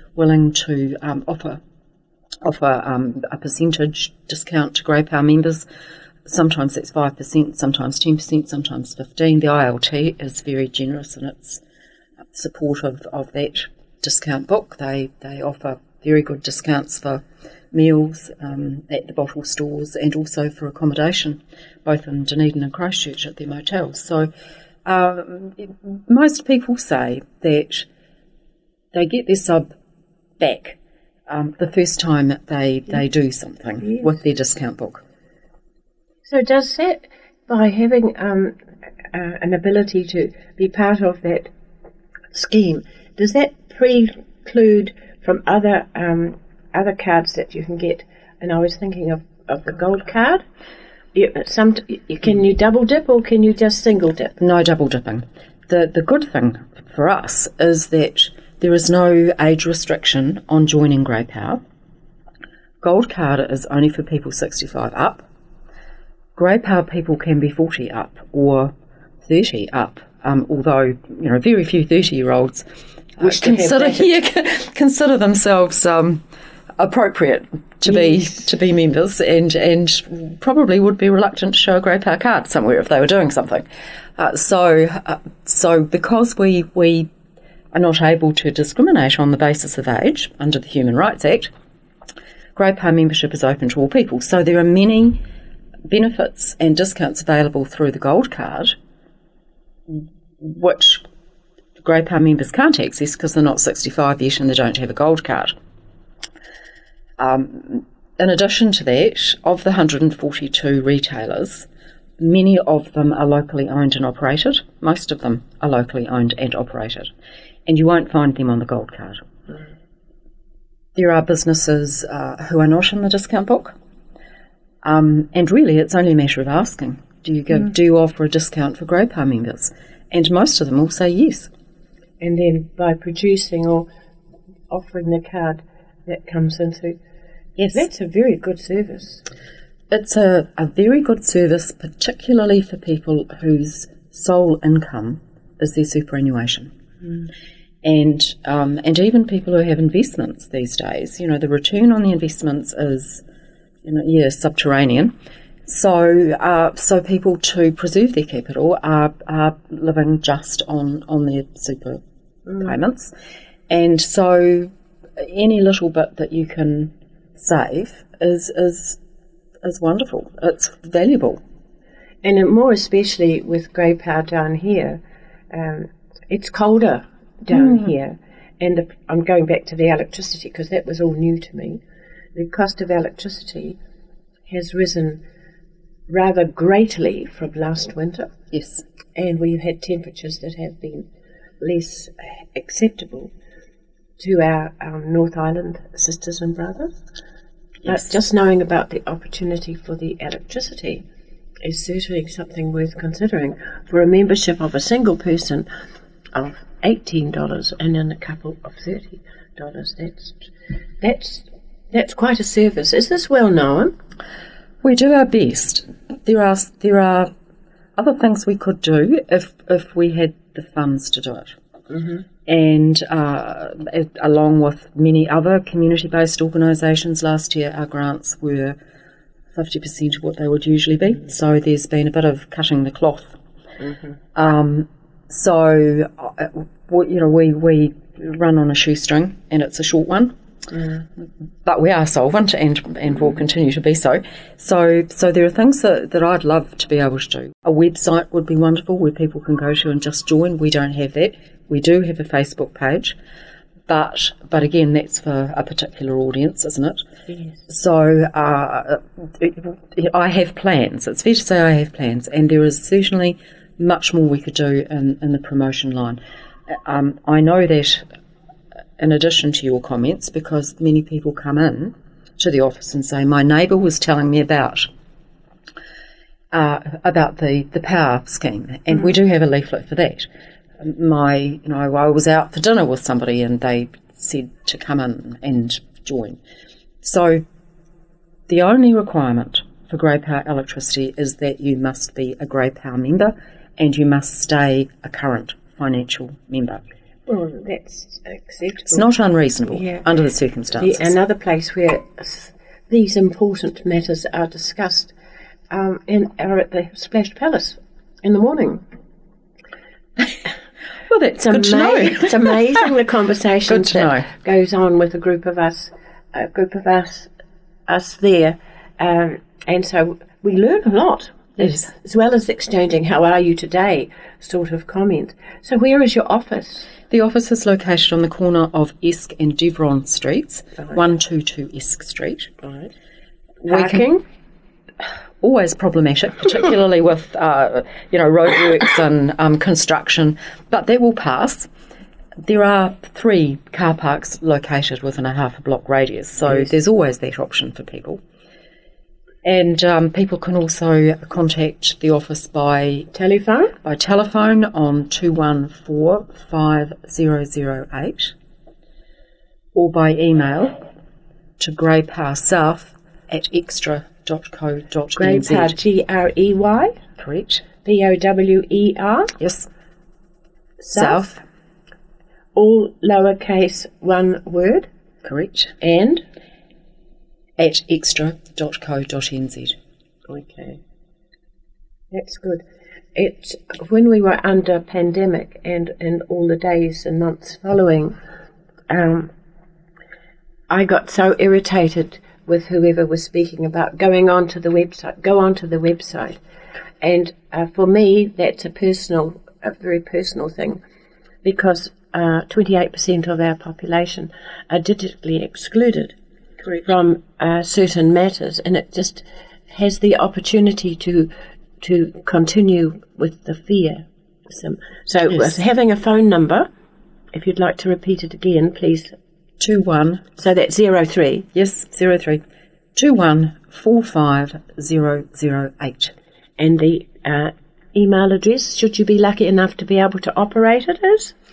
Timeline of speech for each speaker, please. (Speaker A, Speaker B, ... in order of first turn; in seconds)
Speaker A: 0.2-1.6, 2.4-5.7, 6.3-11.6, 12.3-24.3, 24.9-27.9, 28.9-29.7, 30.4-30.8, 31.3-35.0, 54.4-61.6, 62.8-65.3, 66.4-68.7, 69.2-72.7, 73.2-76.2, 76.8-83.7, 84.2-87.1, 87.7-91.5, 92.5-95.2, 95.9-98.8, 99.9-101.0, 101.8-105.5, 107.2-111.7, 112.2-117.1, 117.7-119.2, 121.0-123.8, 124.8-131.5, 137.6-137.8, 139.9-146.7, 147.8-153.2, 153.8-155.1, 155.7-162.0, 162.6-163.1, 163.7-169.0, 169.6-171.4, 177.5-177.8, 188.5-188.8, 214.8-217.3, 218.0-221.6, 222.5-228.8, 229.5-233.4, 234.3-240.3, 241.2-253.2, 253.9-257.0, 257.7-266.2, 266.7-268.1, 269.0-274.9, 276.5-280.3, 280.8-286.4, 287.0-287.4, 288.5-296.8, 298.9-301.1, 311.1-312.8, 313.7-314.3, 321.6-321.9, 327.1-332.5, 333.6-334.1, 335.4-341.7, 342.4-348.2, 349.4-353.1, 353.8-358.3, 359.7-360.8, 361.6-365.8, 367.2-367.6, 369.4-369.7, 370.9-371.4, 375.2-375.7, 377.6-379.8, 419.6-420.2, 421.5-422.4, 422.9-426.1
Speaker B: 36.3-38.6, 39.1-41.5, 42.3-50.4, 51.1-54.4, 73.2-74.1, 132.2-133.9, 134.7-137.0, 137.7-139.2, 172.2-181.8, 182.3-183.8, 184.5-185.2, 186.1-188.3, 189.2-191.1, 191.6-193.3, 194.2-197.0, 197.8-201.0, 201.6-205.7, 206.3-210.4, 211.0-213.9, 221.9-222.2, 297.3-299.1, 299.7-300.0, 300.7-305.1, 305.7-308.8, 311.4-317.3, 317.9-326.9, 332.6-332.9, 333.7-334.2, 353.1-353.8, 365.1-367.0, 367.8-369.3, 370.8-371.3, 372.6-374.9, 375.8-376.2, 380.3-380.8, 382.1-388.2, 388.9-389.3, 390.7-396.4, 397.0-400.8, 401.4-406.1, 406.7-411.3, 411.8-416.7, 417.3-419.1, 420.4-421.5, 426.6-431.3